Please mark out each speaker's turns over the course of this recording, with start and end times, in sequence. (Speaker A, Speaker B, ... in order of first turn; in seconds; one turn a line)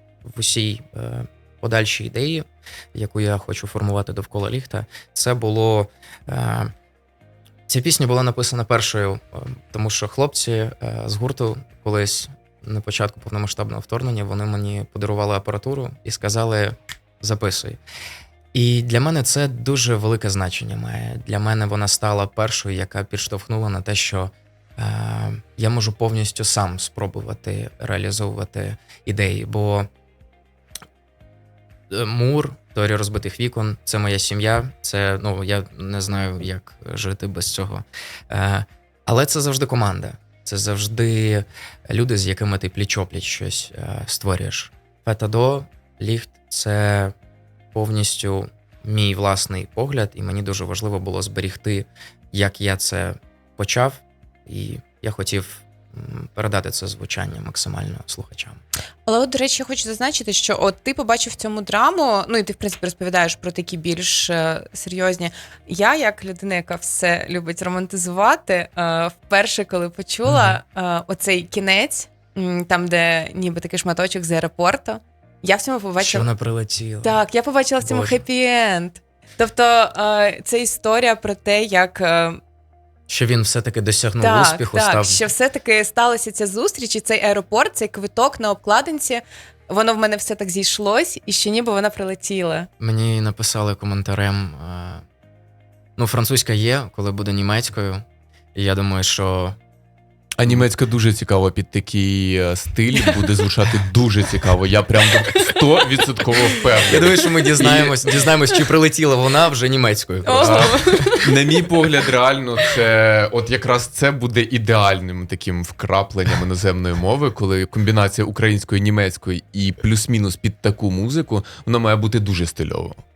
Speaker A: 0.2-6.7
Speaker A: 7.7-17.8
Speaker A: 18.5-29.9
Speaker A: 31.9-47.1
Speaker A: 47.7-58.6
Speaker B: 59.1-76.3
Speaker A: 70.2-70.6
Speaker A: 76.0-77.2
Speaker B: 77.0-82.4
Speaker A: 77.8-78.2
Speaker A: 83.1-85.2
Speaker B: 84.2-92.7
Speaker A: 92.8-95.0
Speaker A: 96.0-99.6
Speaker C: 100.4-108.1
Speaker A: 106.8-111.2
Speaker B: 110.2-111.6
Speaker C: 110.4-123.0